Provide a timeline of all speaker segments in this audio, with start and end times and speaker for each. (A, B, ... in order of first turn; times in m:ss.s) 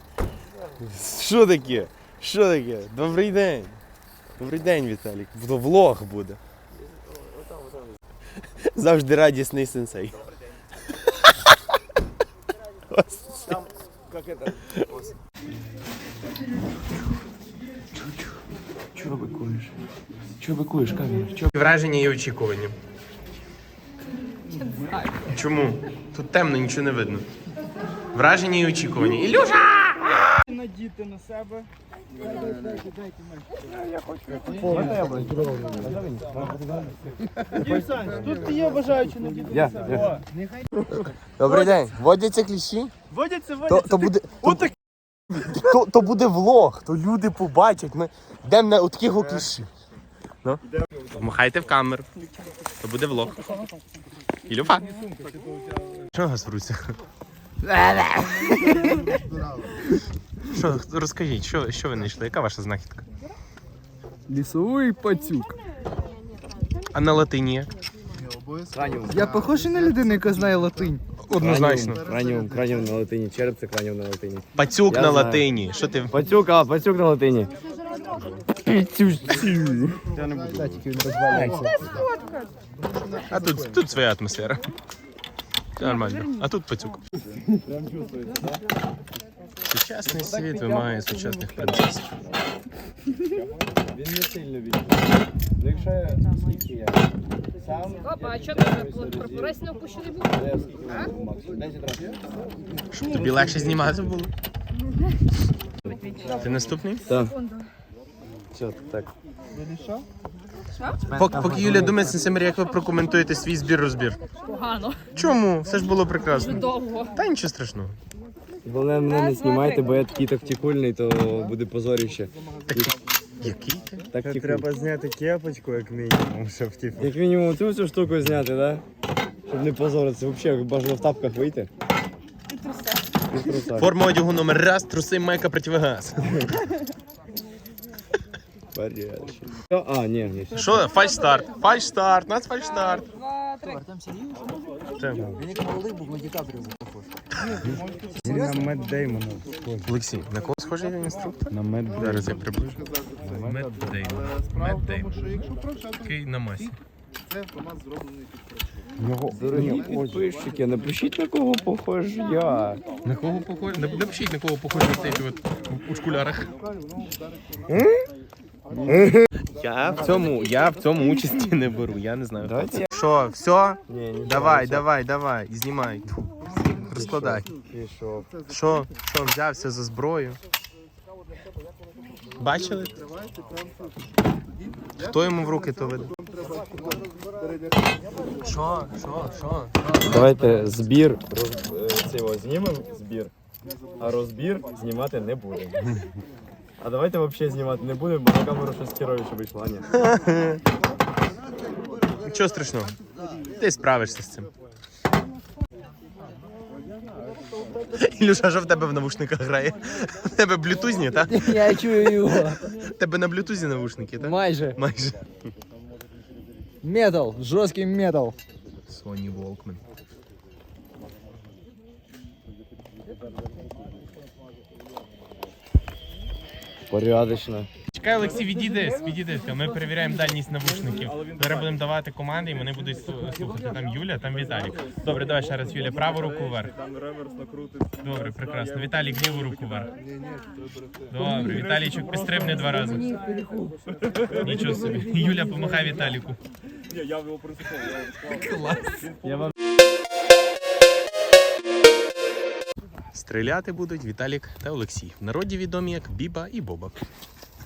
0:00.8-0:03.8 A
0:04.4-0:06.4 A
0:06.9-0:07.8 B
0:08.6-0:10.2 A
0:12.9-0:13.5 A
0:18.9-0:19.7 B
0:20.4-0:21.3 B
0:21.3-0:22.7 A
0:25.3-0:27.2 A
0:28.1-0:30.0 A
0:33.6-0:37.0 B
0:34.6-0:35.0 C
0:37.6-0:38.7 D
0:39.5-0:40.2 B
0:41.4-0:42.9 A
0:43.7-0:44.7 A
0:45.3-0:49.7 A
0:50.4-0:52.1 A
0:52.8-0:53.4 A
0:54.5-0:54.9 A
0:55.0-0:55.4 D
0:56.1-0:56.9 A
0:57.7-0:58.1 E
0:58.2-0:59.9 D
1:00.5-1:03.0 A
1:04.3-1:05.6 E
1:06.9-1:07.7 A
1:08.1-1:11.0 D
1:08.7-1:09.3 B
1:09.2-1:11.0 E
1:11.2-1:12.0 A
1:11.4-1:15.5 B
1:11.8-1:13.0 D
1:14.6-1:16.2 A
1:16.1-1:17.5 B
1:18.6-1:20.0 B
1:19.1-1:24.0 D
1:20.1-1:21.6 C
1:20.6-1:21.8 E
1:23.3-1:24.7 A
1:25.8-1:27.0 A
1:27.5-1:28.6 B
1:29.6-1:32.1 A
1:30.0-1:32.3 B
1:33.8-1:42.2 B
1:38.1-1:40.3 F
1:42.9-1:44.3 A
1:43.0-1:43.9 B
1:45.8-1:46.5 B
1:46.2-1:47.1 A
1:47.0-1:47.3 B
1:48.5-1:49.1 B
1:49.5-1:50.0 D
1:51.1-1:52.2 B
1:51.1-1:54.2 A
1:54.4-1:55.0 F
1:55.1-1:58.0 A
1:56.3-1:57.1 F
1:58.6-2:02.9 B
1:59.1-1:59.8 F
2:01.2-2:03.7 D
2:02.7-2:04.1 A
2:04.1-2:04.7 B
2:04.2-2:07.1 C
2:07.0-2:08.8 B
2:09.4-2:11.7 B
2:12.6-2:13.0 F
2:13.3-2:13.9 B
2:13.8-2:16.6 A
2:18.7-2:20.9 B
2:20.6-2:23.1 A
2:23.4-2:23.8 F
2:23.8-2:24.3 E
2:25.0-2:25.3 A
2:25.2-2:25.5 C
2:25.4-2:26.8 E
2:27.3-2:29.4 D
2:28.2-2:29.9 C
2:29.8-2:32.8 A
2:31.5-2:32.3 C
2:31.8-2:40.7 D
2:33.2-2:33.8 C
2:33.3-2:35.1 A
2:36.0-2:36.7 A
2:39.0-2:40.2 C
2:39.3-2:42.8 B
2:43.0-2:46.5 A
2:46.4-2:47.9 D
2:47.7-2:48.0 B
2:48.6-2:50.3 D
2:48.9-2:49.2 B
2:49.0-2:57.5 A
2:52.4-2:52.9 B
2:53.9-2:54.9 B
2:56.4-2:57.4 D
2:56.9-2:58.3 B
2:58.1-2:58.9 D
2:58.5-3:00.4 A
3:02.3-3:08.0 D
3:02.4-3:02.9 A
3:05.0-3:06.1 A
3:08.4-3:09.8 A
3:10.0-3:13.3 B
3:14.0-3:15.9 B
3:16.8-3:20.0 B
3:19.9-3:20.6 A
3:22.2-3:23.0 A
3:23.5-3:24.5 A
3:27.9-3:35.2 A
3:31.3-3:32.6 E
3:34.2-3:34.8 E
3:36.8-3:38.4 E
3:38.9-3:39.8 A
3:46.9-3:47.7 B
3:47.9-3:56.8 A
3:58.0-3:59.9 A
4:00.0-4:01.3 D
4:01.1-4:03.1 A
4:02.4-4:03.8 E
4:04.4-4:06.4 A
4:04.4-4:05.4 E
4:04.4-4:05.7 D
4:08.1-4:09.1 A
4:13.1-4:17.0 A